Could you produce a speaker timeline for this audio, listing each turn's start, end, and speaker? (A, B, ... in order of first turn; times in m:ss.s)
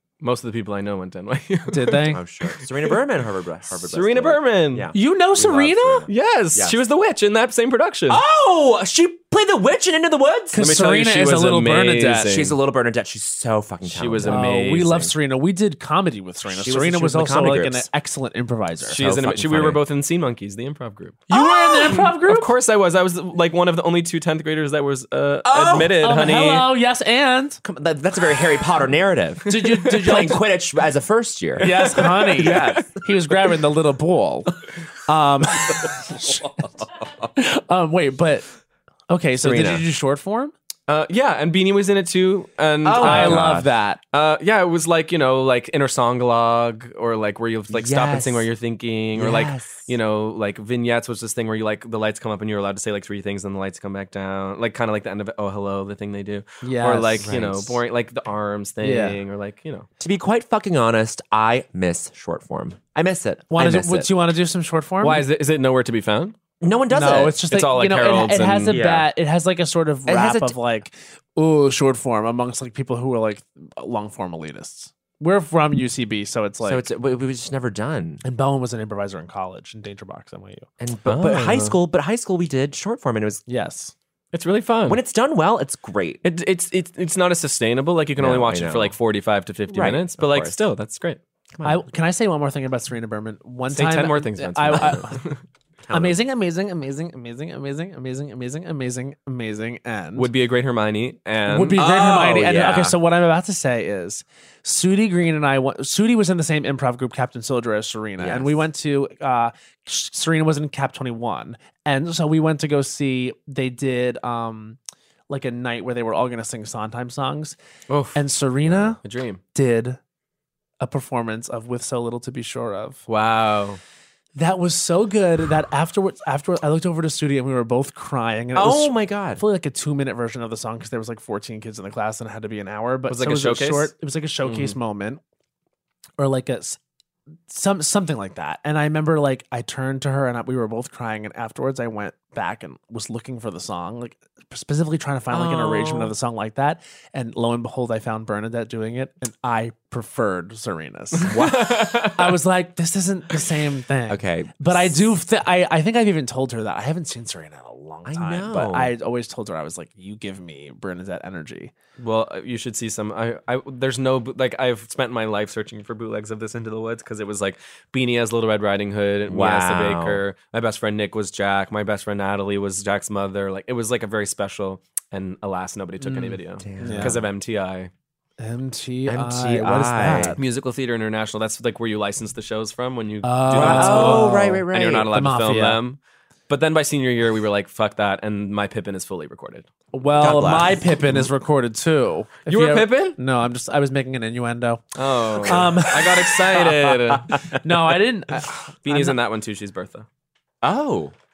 0:00.2-0:02.6 A
0:01.7-0:02.2 B
0:02.1-0:06.8 C
0:03.8-0:04.9 A
0:04.9-0:06.1 B
0:06.1-0:08.2 A
0:08.1-0:10.6 C
0:10.5-0:12.3 B
0:10.6-0:12.6 A
0:12.2-0:14.8 C
0:13.8-0:15.1 A
0:14.2-0:19.0 B
0:16.4-0:17.9 C
0:18.9-0:26.7 A
0:18.9-0:19.8 C
0:21.3-0:22.5 B
0:25.4-0:26.0 C
0:25.9-0:27.6 B
0:27.6-0:32.9 C
0:29.5-0:30.4 B
0:31.6-0:34.5 B
0:32.4-0:32.7 A
0:35.1-0:36.5 B
0:35.7-0:37.0 C
0:37.4-0:38.4 B
0:39.1-0:40.5 B
0:39.4-0:39.8 C
0:40.9-0:59.9 A
0:42.8-0:43.6 C
0:43.0-0:44.0 B
0:47.7-0:48.5 C
0:49.1-0:49.9 C
0:56.6-0:57.3 B
0:57.2-0:57.8 C
0:58.8-0:59.2 B
1:00.0-1:04.1 C
1:03.5-1:05.2 B
1:05.0-1:06.4 A
1:06.6-1:07.4 C
1:06.9-1:16.8 B
1:07.5-1:08.8 A
1:08.7-1:09.1 C
1:10.1-1:10.6 C
1:16.6-1:18.2 C
1:18.2-1:20.7 B
1:20.8-1:23.4 C
1:21.0-1:21.7 A
1:23.5-1:23.9 B
1:24.3-1:25.0 A
1:24.8-1:26.2 C
1:26.2-1:31.2 A
1:28.2-1:28.9 C
1:29.7-1:30.6 C
1:31.5-1:31.8 C
1:31.6-1:35.2 B
1:33.7-1:35.4 A
1:35.8-1:36.2 C
1:35.9-1:40.3 B
1:40.2-1:42.1 A
1:41.5-1:54.8 B
1:41.8-1:43.0 C
1:48.2-1:48.6 C
1:55.3-1:57.6 B
1:57.9-1:59.4 A
1:58.1-1:59.0 B
1:59.5-2:00.0 B
2:00.8-2:03.0 B
2:03.1-2:03.8 A
2:04.3-2:15.2 B
2:08.5-2:09.4 C
2:13.1-2:13.9 A
2:14.4-2:14.8 A
2:16.2-2:16.8 B
2:17.5-2:31.3 B
2:25.3-2:26.1 C
2:31.2-2:32.3 A
2:31.2-2:31.9 C
2:32.1-2:41.7 B
2:34.1-2:35.0 C
2:38.0-2:38.9 C
2:42.0-2:57.9 A
2:49.3-2:50.2 C
2:56.0-2:57.2 B
2:56.6-2:57.2 C
2:58.4-3:00.4 B
2:59.1-3:00.4 C
3:00.4-3:09.7 A
3:03.2-3:05.8 B
3:03.5-3:05.1 C
3:09.9-3:14.8 B
3:10.2-3:11.1 C
3:12.5-3:13.2 A
3:15.0-3:17.3 A
3:15.4-3:19.2 B
3:15.4-3:15.8 C
3:18.8-3:20.0 A
3:20.6-3:21.1 C